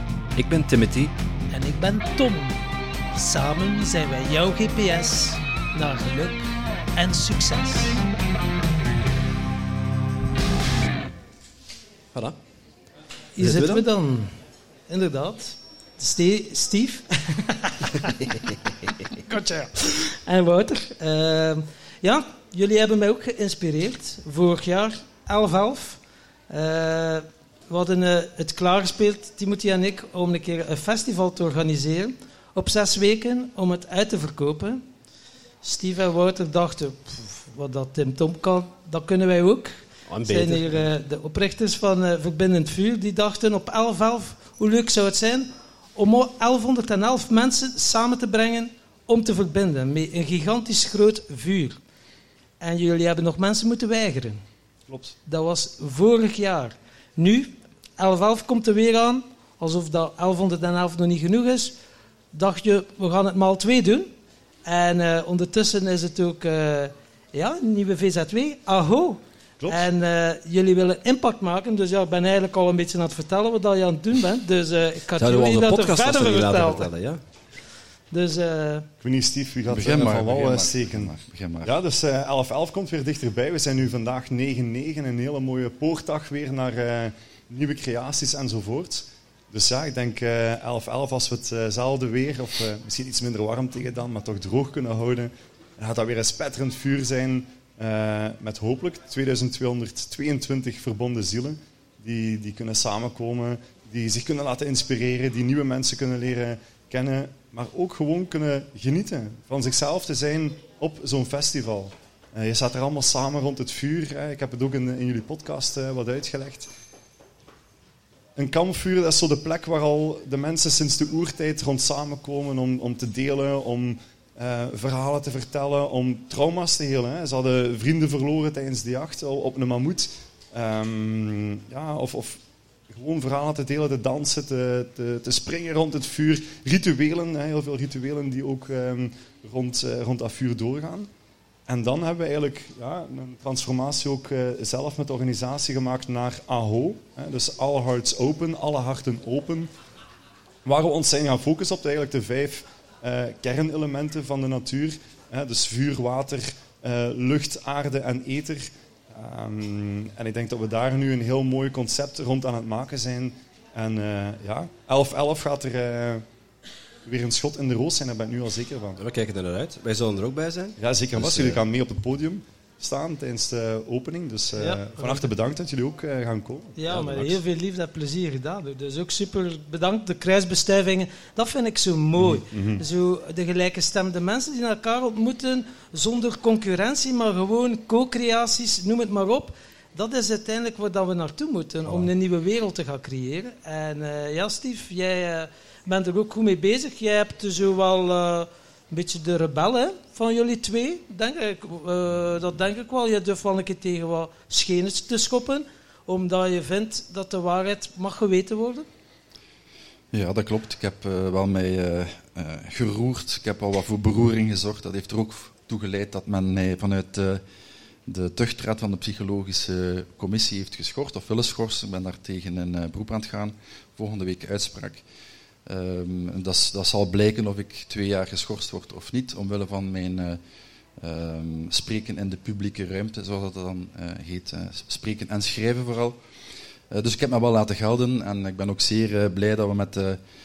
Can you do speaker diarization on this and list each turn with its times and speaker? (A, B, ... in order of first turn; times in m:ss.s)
0:00.4-0:01.1 A
0:01.5-0:02.6 B
0:03.1-0:08.0 B
0:13.4-0:14.3 B
0:13.4-0:13.8 A
0:14.9-0:18.2 B
0:19.1-0:34.8 B
0:35.6-0:51.8 B
0:40.1-0:40.8 A
0:52.6-0:54.4 B
0:54.9-0:55.1 C
0:55.2-1:01.7 B
1:02.3-1:04.1 B
1:04.6-1:16.9 B
1:15.2-1:17.2 A
1:18.1-1:18.9 B
1:19.0-1:21.1 C
1:19.7-1:21.7 D
1:21.6-1:56.7 C
1:58.4-2:21.1 C
2:21.7-2:29.7 C
2:30.6-2:46.2 C
2:47.0-2:49.0 C
2:49.0-2:51.6 A
2:50.8-2:57.4 C
2:54.6-2:55.3 B
2:56.8-3:28.9 B
3:02.2-3:02.8 C
3:30.1-3:37.4 D
3:38.0-3:45.0 D
3:45.6-3:50.4 D
3:51.0-3:56.2 D
3:56.9-4:00.2 D